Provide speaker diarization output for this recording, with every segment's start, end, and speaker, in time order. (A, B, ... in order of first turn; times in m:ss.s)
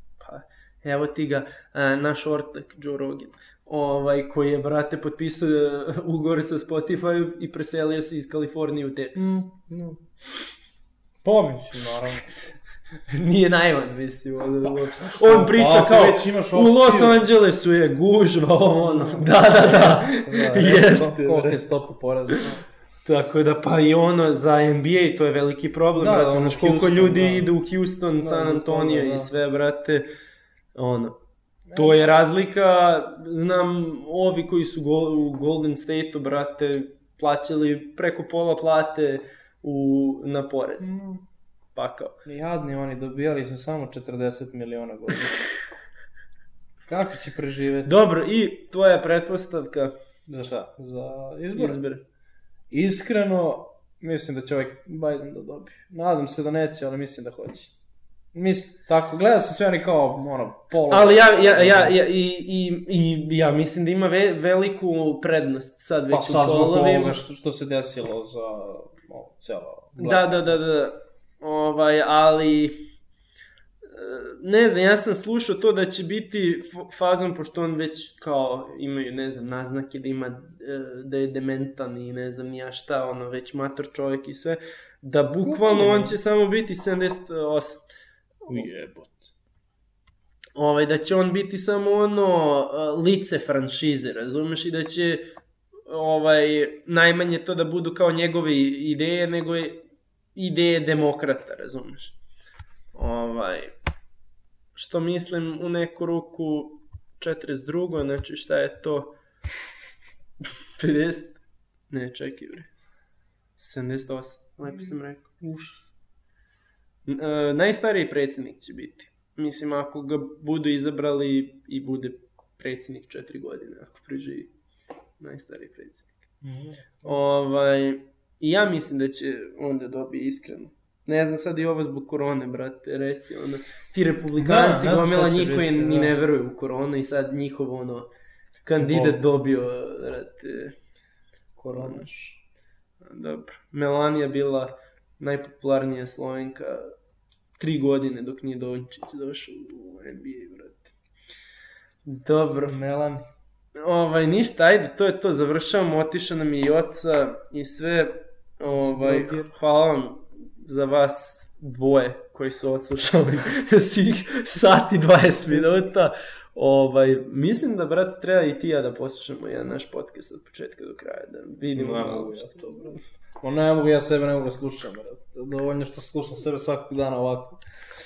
0:00.2-0:09.4 A
0:09.2-0:10.0 B
0:11.2-0:12.4 B
0:13.1-0:21.6 A
0:14.6-0:17.3 B
0:18.9-0:22.6 B
0:23.1-0:30.1 A
0:25.9-0:27.5 B
0:28.2-0:29.3 B
0:30.8-0:31.2 A
0:31.7-0:32.2 B
0:31.8-0:40.9 A
0:40.8-0:41.2 B
0:41.8-0:42.1 A
0:42.3-0:45.5 B
0:46.9-0:48.0 B
0:47.8-0:49.9 A
0:50.3-0:51.8 B
0:51.6-0:52.0 A
0:52.7-0:57.7 B
0:58.3-1:02.0 B
1:00.9-1:07.2 A
1:06.1-1:10.4 B
1:10.0-1:12.8 A
1:13.9-1:27.8 A
1:25.4-1:26.2 B
1:28.5-1:29.2 B
1:30.6-1:35.3 A
1:35.9-1:39.8 A
1:40.4-1:42.2 A
1:43.0-1:43.7 A
1:44.8-1:49.1 A
1:50.8-1:51.4 A
1:51.9-1:52.7 A
1:53.6-1:55.4 A
1:55.4-1:55.8 B
1:57.1-2:04.5 A
2:05.2-2:06.1 A
2:06.4-2:07.0 B
2:07.0-2:18.1 A
2:14.4-2:16.1 B
2:18.6-2:20.8 A
2:18.8-2:19.2 B
2:21.6-2:22.4 B
2:21.7-2:22.1 A
2:23.0-2:26.9 A
2:27.6-2:30.9 A
2:32.1-2:32.8 A
2:32.5-2:33.2 B
2:33.8-2:53.0 A
2:38.7-2:39.5 B
2:51.7-2:57.6 B